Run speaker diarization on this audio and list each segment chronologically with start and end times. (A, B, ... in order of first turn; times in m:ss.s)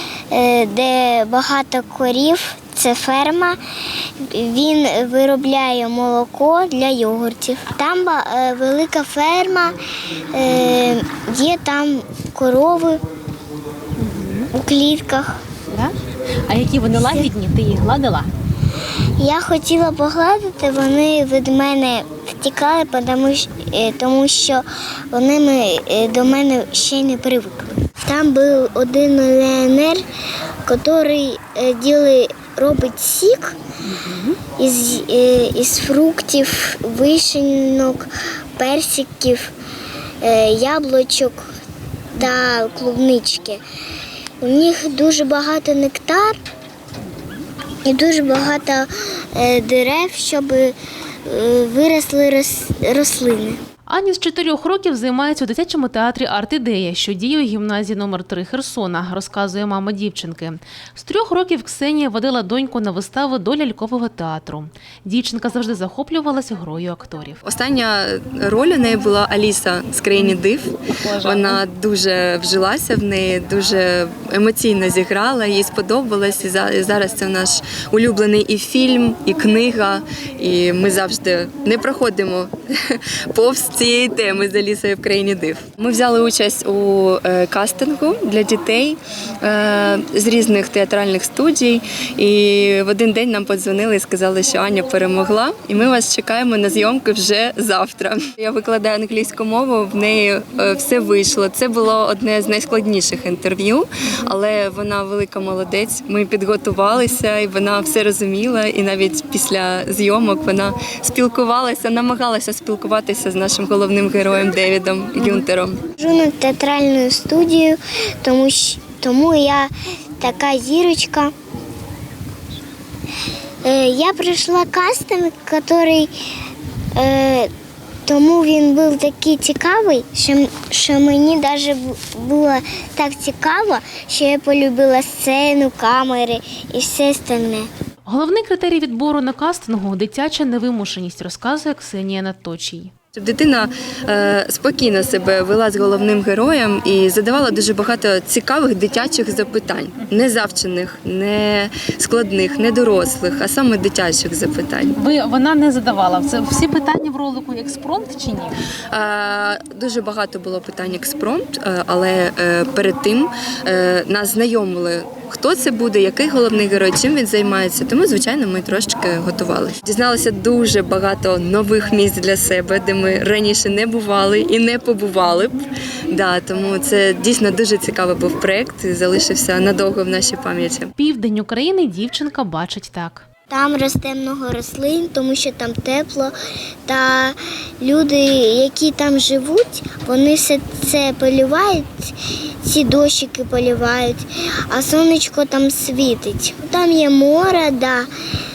0:00.3-0:03.6 A
0:04.3-0:09.7 A
0:10.3-0:13.0 A
0:14.0-0:14.5 B
0:14.5-0:15.3 A
0:16.5-0:18.3 B
0:17.0-0:17.3 A
0:19.2-0:30.0 A
0:30.6-0:33.6 A
0:33.9-0:34.4 B
0:34.6-0:38.0 A
0:38.6-0:39.5 A
0:40.2-0:41.4 A
0:42.1-0:43.6 A
0:44.4-0:46.4 A
0:47.9-0:50.7 A
0:51.3-0:53.6 A
0:53.9-1:07.4 B
1:07.4-1:55.8 C
1:11.0-1:11.6 B
1:55.2-1:55.5 B
1:56.0-2:01.3 A
2:03.6-2:06.1 A
2:07.0-2:07.5 A
2:08.1-2:17.7 A
2:18.1-2:22.9 B
2:23.1-2:35.0 C
2:34.9-2:38.6 B
2:38.9-2:55.6 C
2:56.1-3:00.9 C
3:01.0-3:03.2 B
3:03.5-3:06.3 A
3:06.8-3:12.1 A
3:12.6-3:18.1 A